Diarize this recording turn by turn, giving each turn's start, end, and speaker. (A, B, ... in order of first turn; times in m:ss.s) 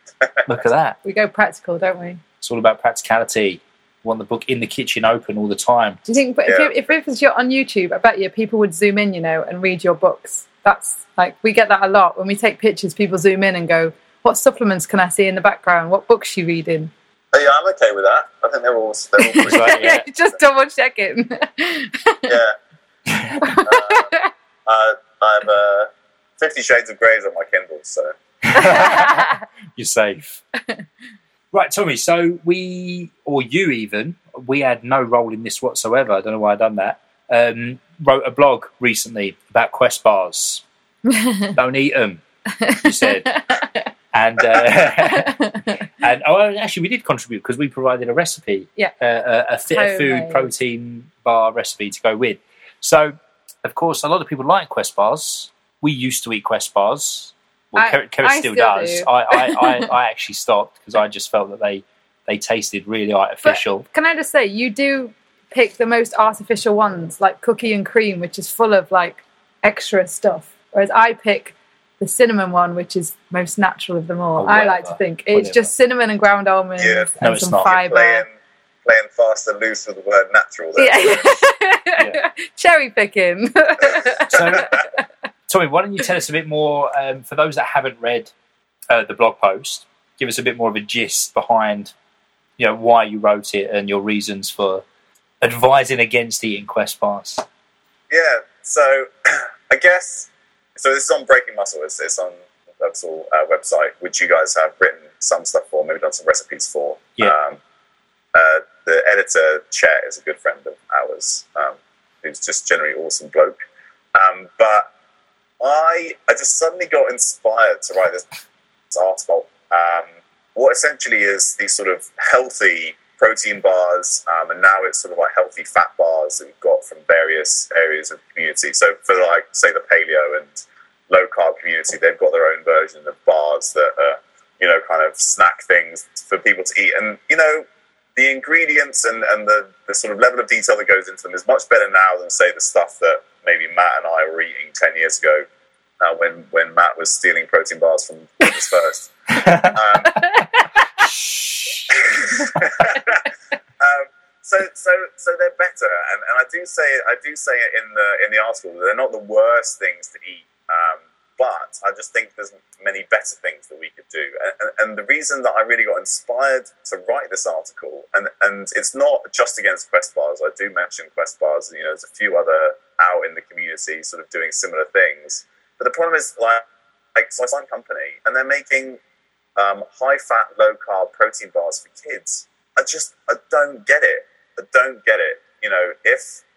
0:00.4-0:01.0 A
0:01.0-0:02.2 B
0:02.4-0:06.0 A
0:06.0-0:16.9 B
0:06.5-0:06.7 C
0:17.3-0:20.2 C
0:19.2-0:22.4 B
0:19.4-0:20.0 A
0:22.3-0:22.5 C
0:23.0-0:23.6 A
0:23.4-0:24.3 B
0:23.6-0:28.2 C
0:28.4-0:30.4 A
0:28.5-0:29.3 B
0:30.5-0:30.8 B
0:31.5-0:40.6 A
0:41.1-0:41.6 B
0:41.6-0:43.4 A
0:42.6-0:43.9 B
0:44.1-1:03.8 A
0:44.9-0:45.8 B
0:49.7-0:50.5 B
0:57.7-0:59.9 B
1:03.4-1:18.2 B
1:14.4-1:15.7 A
1:16.8-1:18.3 C
1:17.2-1:17.7 A
1:18.8-1:21.4 C
1:20.8-1:25.0 B
1:24.3-1:24.7 A
1:24.4-1:24.8 C
1:25.5-1:28.3 A
1:28.9-1:31.9 A
1:32.6-1:34.8 A
1:35.4-1:37.4 A
1:38.1-1:47.6 C
1:48.3-1:53.6 C
1:54.1-1:54.9 C
1:55.6-1:58.4 C
1:58.9-2:10.5 C
2:11.1-2:25.4 C
2:26.0-2:30.2 C
2:29.3-2:29.8 A
2:30.1-2:30.6 B
2:31.2-2:31.7 A
2:31.9-2:33.3 C
2:33.8-2:56.6 C
2:57.1-2:59.0 C
2:59.6-3:06.4 C